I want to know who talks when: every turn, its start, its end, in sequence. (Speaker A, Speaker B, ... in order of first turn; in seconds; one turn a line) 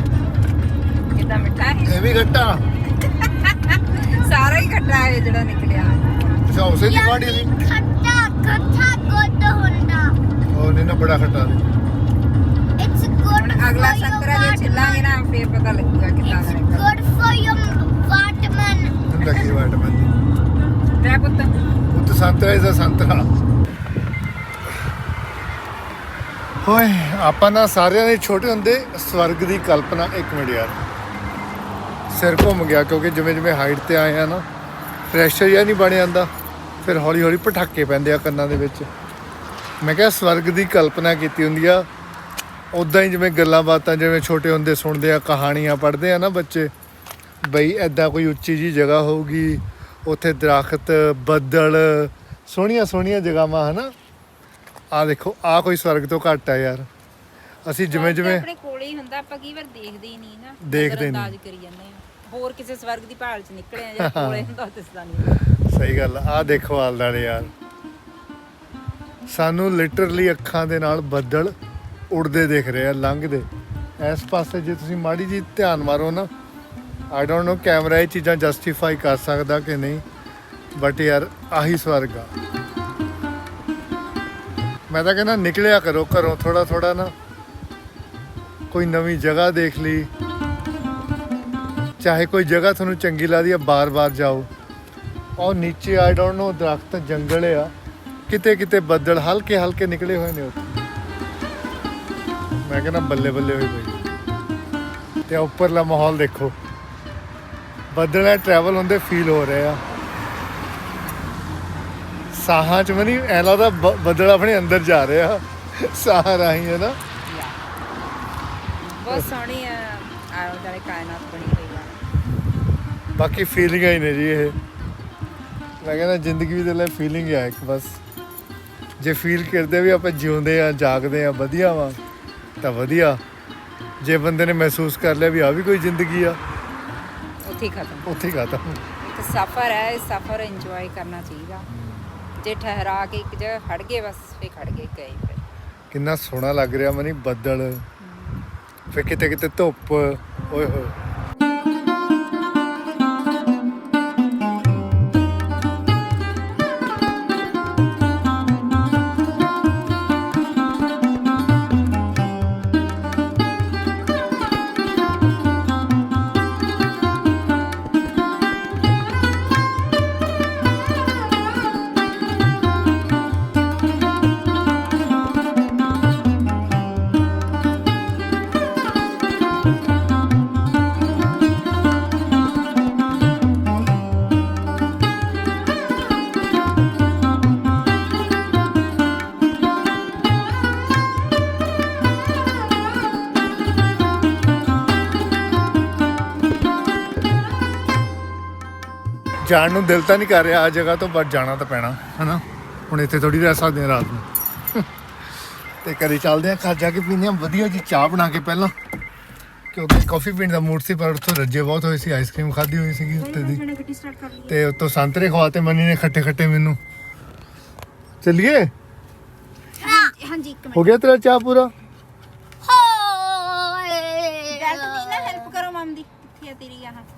Speaker A: 1.1-2.1
Speaker B: 1.9-2.6
Speaker A: 3.0-6.4
Speaker B: 6.5-7.5
Speaker C: 6.8-10.2
Speaker B: 10.5-11.6
Speaker C: 12.8-15.1
Speaker A: 13.3-16.9
Speaker C: 16.2-19.0
Speaker B: 19.1-20.1
Speaker A: 21.0-21.6
Speaker B: 21.9-23.3
Speaker B: 26.6-30.8
Speaker B: 32.1-34.5
Speaker B: 35.1-36.3
Speaker B: 36.8-38.9
Speaker B: 39.8-41.9
Speaker B: 42.7-46.7
Speaker B: 47.4-53.9
Speaker B: 54.9-56.9
Speaker B: 57.6-58.5
Speaker A: 57.9-65.4
Speaker B: 60.6-61.3
Speaker B: 64.0-64.5
Speaker B: 65.5-67.5
Speaker B: 69.3-71.5
Speaker B: 72.1-73.5
Speaker B: 74.0-76.3
Speaker B: 77.1-80.0
Speaker B: 80.7-82.3
Speaker B: 84.9-87.1
Speaker B: 88.7-90.1
Speaker B: 92.0-94.5
Speaker B: 95.4-97.7
Speaker B: 98.3-100.8
Speaker B: 102.6-104.0
Speaker B: 105.3-106.5
Speaker B: 107.9-109.8
Speaker B: 112.3-117.0
Speaker A: 117.3-117.6
Speaker A: 118.7-122.0
Speaker B: 123.2-124.6
Speaker B: 125.8-128.0
Speaker B: 129.0-132.0
Speaker B: 132.6-133.2
Speaker B: 134.0-136.4
Speaker A: 137.4-138.1
Speaker B: 138.0-138.8
Speaker A: 139.0-141.7
Speaker B: 141.8-142.0
Speaker A: 142.4-145.4
Speaker B: 145.9-147.8
Speaker A: 148.0-148.4
Speaker B: 148.9-150.9
Speaker B: 199.4-204.8
Speaker B: 205.8-208.7
Speaker B: 209.7-213.6
Speaker A: 213.1-214.6
Speaker B: 214.5-216.8
Speaker B: 218.2-218.7
Speaker A: 219.8-220.9
Speaker B: 220.7-221.7
Speaker C: 222.6-225.5
Speaker A: 224.5-227.1